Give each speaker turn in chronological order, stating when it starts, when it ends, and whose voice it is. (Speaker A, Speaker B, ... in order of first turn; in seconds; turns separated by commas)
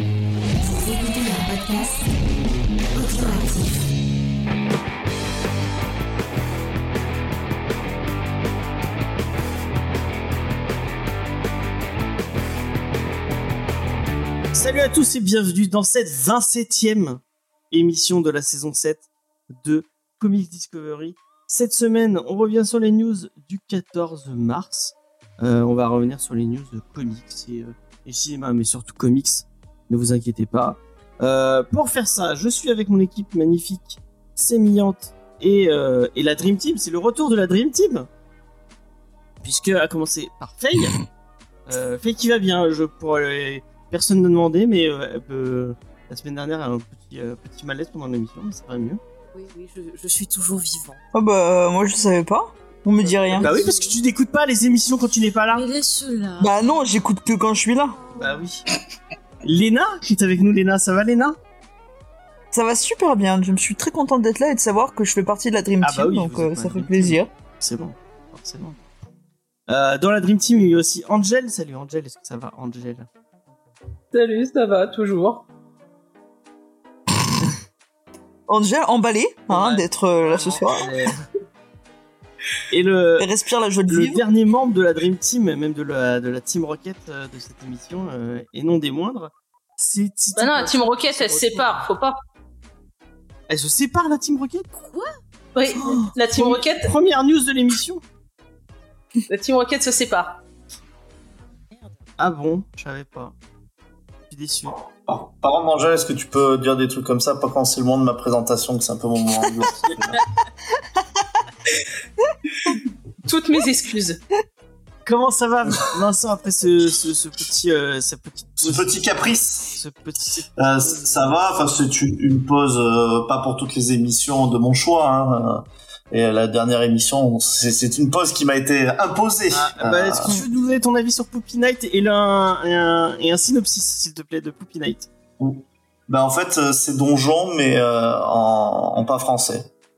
Speaker A: 0.7-2.1, Speaker A: 2.9-3.6, Speaker B: 14.5-38.1, Speaker B: 39.4-41.0, Speaker B: 41.7-49.0, Speaker C: 49.3-51.0, Speaker D: 51.1-53.6, Speaker C: 53.0-54.0, Speaker B: 53.4-55.6, Speaker C: 55.5-56.8, Speaker D: 56.4-58.0, Speaker B: 58.1-58.6, Speaker B: 59.4-61.4, Speaker D: 62.5-67.3, Speaker B: 65.8-68.8, Speaker B: 69.7-73.1, Speaker E: 74.1-75.4, Speaker D: 78.5-80.9, Speaker B: 79.5-81.2, Speaker B: 82.7-83.3, Speaker D: 83.2-84.2, Speaker B: 83.9-91.9, Speaker E: 90.3-92.2, Speaker B: 93.5-94.7, Speaker C: 94.7-95.1, Speaker E: 95.5-96.9, Speaker B: 95.8-98.0, Speaker E: 99.3-100.4, Speaker B: 102.2-103.3, Speaker B: 104.3-104.8, Speaker F: 105.1-110.2, Speaker E: 113.2-114.2, Speaker B: 115.0-119.0, Speaker F: 118.6-119.8, Speaker B: 119.8-121.4, Speaker F: 120.6-130.3, Speaker B: 129.5-135.1, Speaker F: 135.4-139.7